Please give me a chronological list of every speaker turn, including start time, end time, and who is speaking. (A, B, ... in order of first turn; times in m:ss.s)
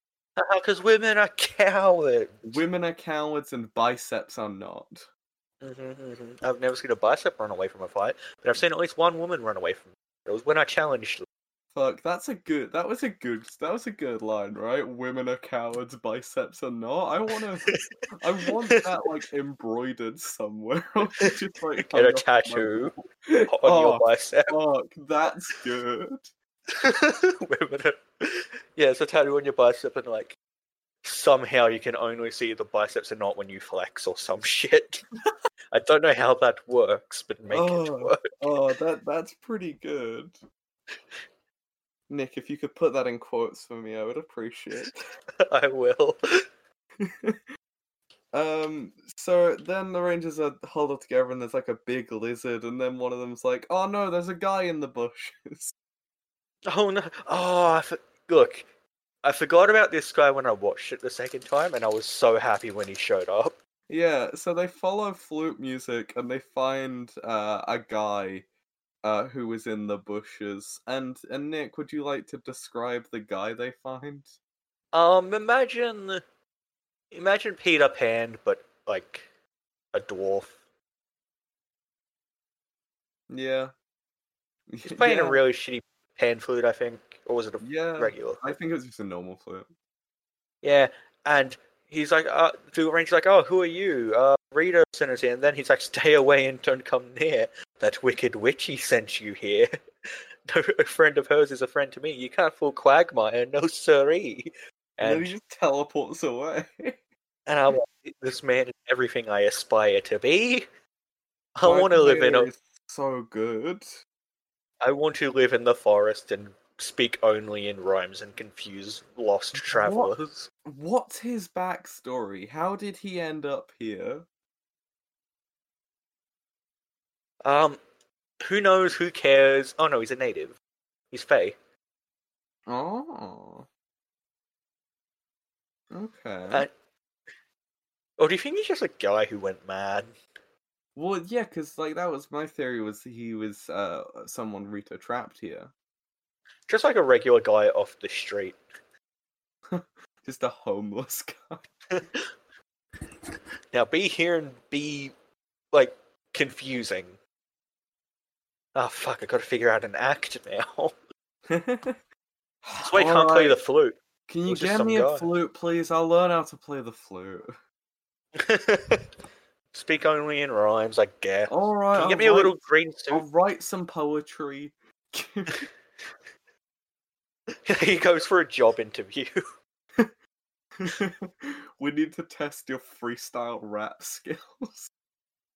0:00.4-0:02.6 A
0:02.4-0:05.1 B
0:05.6-0:11.2 A
0:11.7-0:26.3 B
0:18.4-0:18.9 A
0:21.1-0:22.9 A
0:23.5-0:24.6 A
0:26.7-0:30.4 A
0:31.0-0:35.0 A
0:35.7-0:38.3 A
0:37.5-0:40.4 B
0:42.1-0:45.0 B
0:45.4-0:46.4 A
0:47.0-0:47.4 B
0:48.3-0:55.7 B
0:56.7-0:58.7 A
0:59.2-1:03.6 A
1:03.9-1:08.4 B
1:09.0-1:14.4 B
1:14.9-1:16.2 A
1:17.1-1:19.3 A
1:19.9-1:20.6 A
1:23.3-1:23.7 B
1:24.7-1:25.4 B
1:24.8-1:28.5 A
1:27.6-1:29.7 B
1:30.6-1:39.7 A
1:40.5-1:45.4 A
1:45.0-1:47.0 B
1:47.4-1:50.7 A
1:51.6-1:52.5 A
1:51.6-1:53.9 B
1:54.8-2:00.5 A
1:59.6-2:00.1 B
2:00.6-2:04.2 B
2:07.4-2:07.8 A
2:08.4-2:10.6 A
2:11.1-2:11.6 A
2:12.6-2:13.7 B
2:15.9-2:16.6 B
2:18.2-2:20.2 A
2:20.9-2:25.7 B
2:26.7-2:28.6 A
2:29.7-2:31.7 B
2:31.9-2:32.3 A
2:33.7-2:35.1 A
2:35.7-2:37.2 A
2:38.7-2:40.9 A
2:41.5-2:42.0 B
2:42.6-2:43.6 B
2:42.8-2:45.3 A
2:44.3-2:47.6 B
2:48.4-2:49.1 A
2:49.7-2:53.3 A
2:51.5-2:52.5 B
2:53.1-2:55.6 B
2:57.6-2:59.3 A
3:00.8-3:04.9 B